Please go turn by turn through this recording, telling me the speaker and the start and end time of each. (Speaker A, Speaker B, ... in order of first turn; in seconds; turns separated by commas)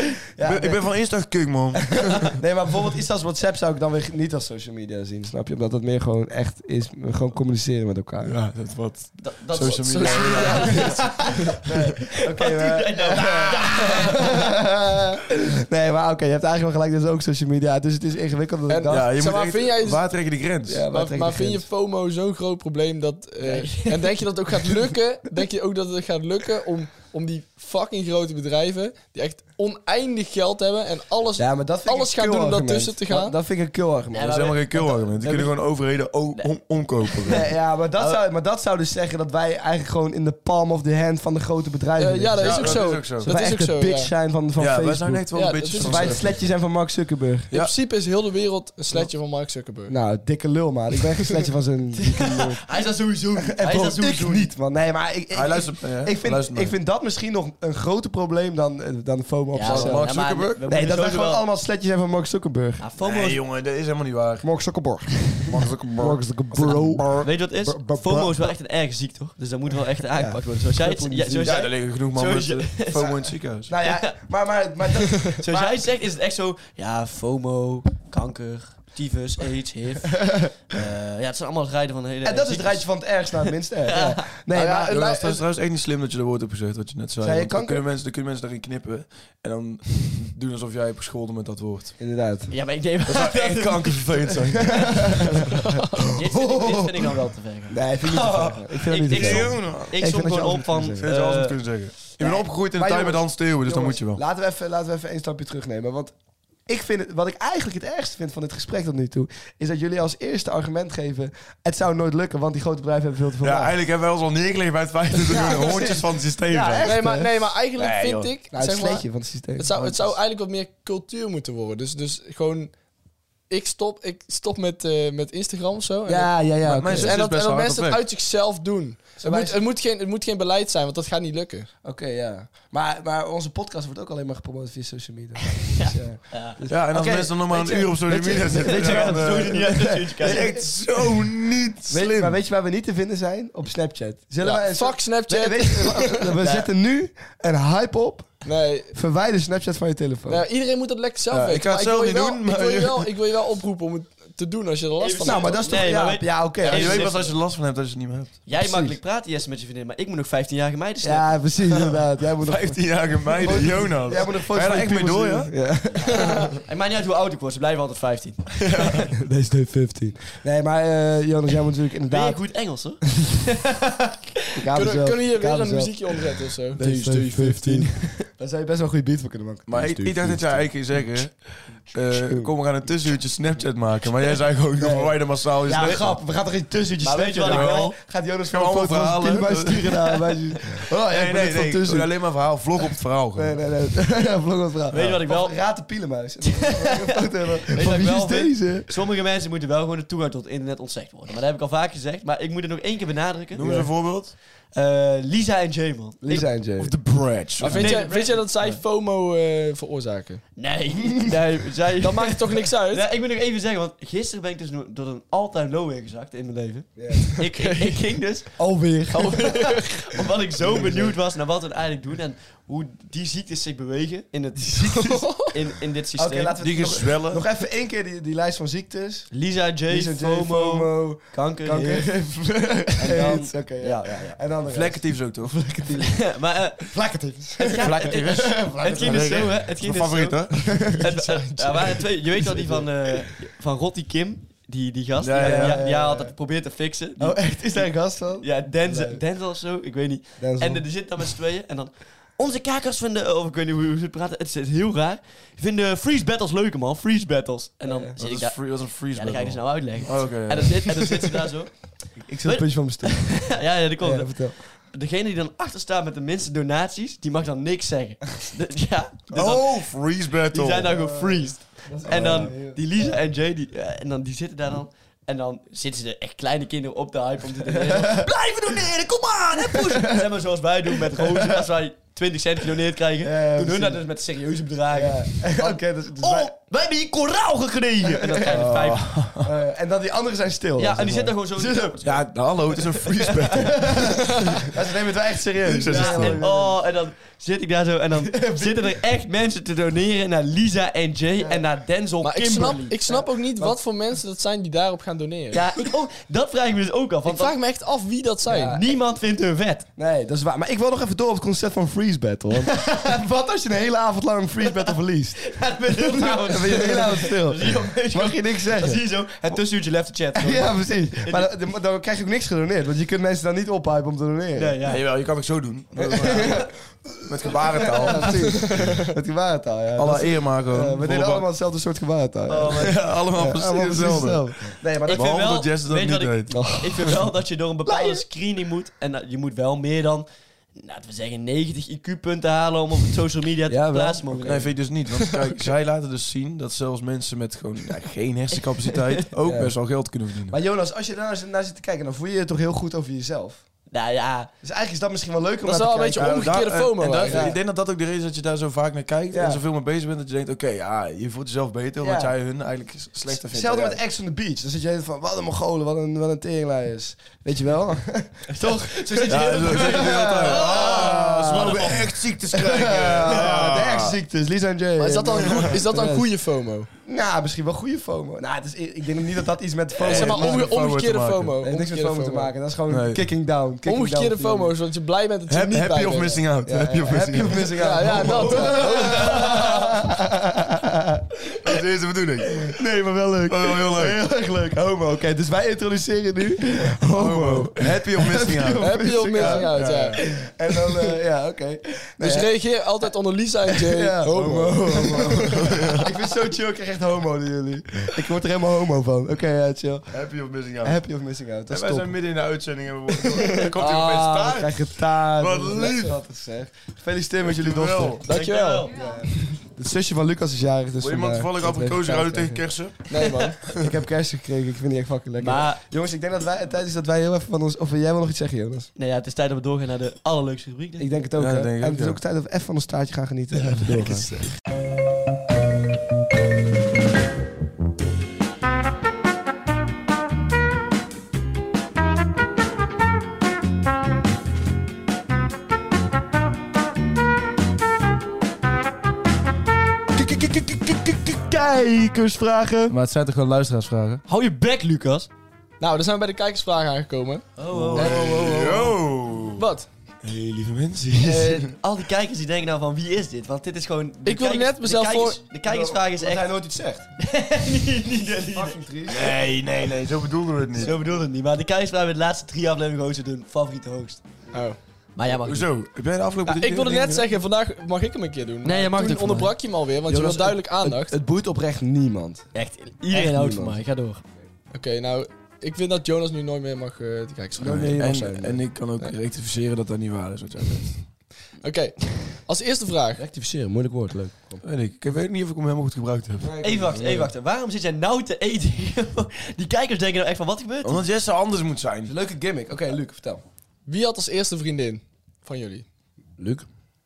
Speaker A: 0.4-0.9, Speaker B: 0.4-2.4, Speaker A: 2.1-8.4, Speaker B: 8.2-11.3, Speaker C: 9.2-11.5, Speaker D: 9.7-11.1, Speaker A: 10.7-19.1, Speaker C: 12.2-14.4, Speaker D: 18.7-20.0, Speaker B: 18.9-20.9, Speaker A: 20.7-21.7, Speaker D: 20.9-33.4, Speaker C: 23.4-24.2, Speaker A: 31.4-35.5, Speaker C: 34.1-35.4, Speaker B: 34.2-37.5, Speaker C: 37.1-38.2, Speaker A: 37.3-47.5, Speaker D: 42.0-44.1, Speaker B: 42.4-43.3, Speaker B: 44.6-46.5, Speaker D: 45.3-46.2, Speaker D: 47.5-50.0, Speaker A: 49.9-52.6, Speaker C: 52.0-54.5, Speaker A: 53.4-60.1, Speaker B: 55.3-56.8, Speaker C: 59.5-61.5, Speaker B: 59.6-60.6, Speaker A: 60.7-62.8, Speaker C: 62.8-63.4, Speaker B: 63.0-64.5, Speaker A: 64.4-68.5, Speaker B: 65.5-67.3, Speaker C: 67.2-73.2, Speaker A: 70.2-71.7, Speaker B: 71.3-73.7, Speaker A: 73.0-75.8, Speaker C: 73.8-74.1, Speaker C: 75.4-83.0, Speaker A: 80.2-80.5, Speaker A: 82.2-85.3, Speaker C: 83.9-84.3, Speaker B: 84.5-92.0, Speaker A: 87.2-87.8, Speaker A: 92.0-92.5, Speaker C: 92.5-94.3, Speaker B: 93.1-95.5, Speaker A: 94.7-95.3, Speaker A: 96.0-97.1, Speaker C: 96.1-101.6, Speaker A: 97.7-101.1, Speaker B: 99.1-100.0, Speaker B: 101.0-104.2, Speaker C: 102.2-102.4, Speaker A: 102.2-106.1, Speaker A: 106.7-113.8, Speaker B: 113.4-117.0, Speaker A: 115.2-117.3, Speaker D: 116.8-122.7, Speaker B: 117.8-118.3, Speaker A: 118.5-119.7, Speaker B: 119.7-120.2, Speaker D: 123.5-131.7, Speaker A: 126.1-127.2, Speaker B: 126.6-128.0, Speaker A: 129.2-129.6, Speaker A: 131.8-141.1, Speaker C: 135.6-136.6, Speaker B: 136.7-142.4, Speaker C: 138.5-140.5, Speaker A: 141.9-150.4, Speaker D: 144.4-146.5, Speaker D: 148.4-148.9, Speaker D: 150.3-155.6, Speaker B: 151.3-153.1, Speaker C: 155.0-157.4, Speaker A: 155.2-157.1, Speaker B: 156.6-158.4, Speaker C: 158.5-161.4, Speaker A: 158.6-159.0, Speaker A: 161.0-166.4, Speaker B: 162.4-165.5, Speaker C: 165.9-169.0, Speaker B: 168.6-169.1, Speaker A: 169.1-172.4, Speaker C: 172.1-174.2, Speaker A: 174.5-176.2, Speaker D: 174.7-177.9, Speaker A: 176.7-180.8, Speaker B: 179.7-186.2, Speaker A: 182.1-182.5, Speaker A: 184.8-192.2, Speaker C: 185.7-186.0, Speaker C: 187.0-188.0, Speaker B: 187.4-187.9, Speaker B: 188.5-190.2, Speaker B: 191.1-193.6, Speaker A: 193.3-198.9, Speaker C: 194.9-195.6, Speaker B: 194.9-195.2, Speaker C: 196.4-203.7, Speaker B: 203.6-204.3, Speaker A: 203.6-203.9, Speaker C: 204.7-206.5, Speaker A: 206.2-207.0, Speaker B: 206.8-208.0, Speaker D: 207.6-210.4, Speaker C: 207.7-208.5, Speaker C: 210.6-218.5, Speaker D: 212.0-213.1, Speaker A: 217.0-217.3, Speaker D: 217.4-218.1, Speaker A: 218.6-219.8, Speaker D: 219.1-219.9, Speaker C: 219.6-226.6, Speaker A: 220.6-221.2, Speaker D: 224.9-225.5, Speaker A: 226.2-229.3, Speaker B: 226.6-227.4, Speaker C: 229.3-232.2, Speaker A: 229.9-239.5, Speaker C: 233.0-234.4, Speaker B: 234.7-235.7, Speaker C: 236.1-236.9, Speaker C: 237.6-261.9, Speaker B: 237.8-240.8, Speaker A: 240.5-241.1, Speaker D: 241.0-242.1, Speaker A: 242.4-242.9, Speaker B: 245.2-245.8, Speaker A: 245.4-246.4, Speaker A: 247.2-249.2, Speaker A: 250.4-250.9, Speaker A: 257.8-258.2, Speaker B: 258.2-261.2, Speaker A: 262.2-264.6, Speaker C: 262.4-269.8, Speaker B: 269.3-271.0, Speaker C: 270.5-289.1, Speaker A: 270.9-273.2, Speaker B: 272.1-272.5, Speaker A: 277.6-278.9, Speaker A: 279.6-280.3, Speaker A: 281.1-281.7, Speaker A: 283.2-284.0, Speaker A: 284.9-286.5, Speaker A: 288.0-288.7, Speaker B: 288.5-289.5, Speaker A: 289.4-292.0, Speaker C: 290.8-293.4, Speaker B: 292.0-294.6, Speaker A: 293.6-296.8, Speaker B: 295.6-296.4, Speaker C: 295.9-303.2, Speaker A: 298.2-299.0, Speaker A: 301.4-301.6, Speaker D: 302.2-305.6, Speaker C: 305.5-307.6, Speaker D: 307.2-308.8, Speaker A: 308.5-308.9, Speaker C: 308.6-309.9, Speaker A: 310.0-319.6, Speaker C: 315.4-321.5, Speaker A: 320.4-324.8, Speaker C: 324.6-325.0, Speaker B: 324.8-326.7, Speaker A: 325.9-326.7, Speaker C: 326.2-326.6, Speaker A: 327.2-335.5, Speaker B: 327.3-329.1, Speaker B: 330.0-331.5, Speaker C: 332.5-333.0, Speaker B: 332.7-334.4, Speaker C: 335.1-344.7, Speaker B: 335.1-336.6, Speaker A: 336.5-337.2, Speaker A: 337.9-338.2, Speaker A: 343.7-344.7, Speaker B: 344.4-350.6, Speaker C: 348.9-349.2, Speaker A: 349.4-349.8, Speaker A: 350.5-353.6, Speaker C: 353.9-354.5, Speaker A: 354.6-356.7, Speaker D: 355.6-357.5, Speaker B: 356.2-364.0, Speaker A: 357.2-357.6, Speaker A: 359.3-359.6, Speaker A: 362.0-362.3, Speaker A: 363.3-376.3, Speaker C: 368.5-372.0, Speaker B: 369.3-374.2, Speaker D: 375.0-376.9, Speaker A: 377.0-380.7, Speaker B: 380.0-381.6, Speaker D: 380.0-382.5, Speaker A: 381.6-384.7, Speaker B: 382.9-383.2, Speaker D: 383.9-386.5, Speaker B: 385.5-388.3, Speaker A: 386.6-391.2, Speaker D: 387.8-389.5, Speaker C: 388.5-389.8, Speaker B: 391.6-392.8, Speaker A: 392.6-402.5, Speaker B: 393.5-394.2, Speaker B: 397.1-400.2, Speaker D: 398.8-400.2, Speaker D: 402.2-405.6, Speaker A: 403.7-410.3, Speaker B: 405.4-406.1, Speaker B: 410.1-411.0, Speaker A: 410.8-412.1, Speaker B: 411.7-416.2, Speaker A: 413.2-418.2, Speaker B: 417.4-418.2, Speaker D: 418.2-418.9, Speaker C: 418.3-419.0, Speaker A: 418.9-422.8, Speaker B: 421.0-423.1, Speaker D: 423.1-423.6, Speaker B: 423.6-423.9, Speaker A: 423.8-428.9, Speaker C: 425.4-425.8, Speaker C: 429.0-431.1, Speaker A: 431.0-434.5, Speaker B: 431.4-432.2, Speaker B: 433.7-434.5, Speaker B: 450.2-451.3, Speaker A: 451.3-453.0, Speaker B: 452.9-454.2, Speaker C: 454.3-455.3, Speaker D: 455.8-457.5, Speaker C: 457.6-458.3, Speaker B: 457.7-459.7, Speaker A: 457.9-459.0, Speaker D: 459.6-459.9, Speaker B: 460.2-461.7, Speaker C: 461.2-466.5, Speaker D: 464.2-465.4, Speaker A: 465.6-467.1, Speaker C: 467.2-468.8, Speaker A: 468.5-469.4, Speaker B: 469.1-471.0, Speaker C: 470.8-474.2, Speaker D: 474.5-474.8, Speaker C: 475.2-475.7, Speaker B: 475.4-477.2, Speaker D: 476.5-481.2, Speaker C: 478.6-479.5, Speaker A: 480.1-482.5, Speaker C: 482.5-484.2, Speaker A: 483.1-483.8, Speaker D: 484.7-488.0, Speaker A: 487.6-488.6, Speaker B: 487.9-491.0, Speaker D: 491.6-493.2, Speaker A: 493.2-494.6, Speaker B: 494.6-496.5, Speaker A: 496.4-497.3, Speaker C: 496.6-501.0, Speaker B: 500.8-502.1, Speaker A: 502.1-503.4, Speaker D: 503.9-505.9, Speaker A: 506.4-506.7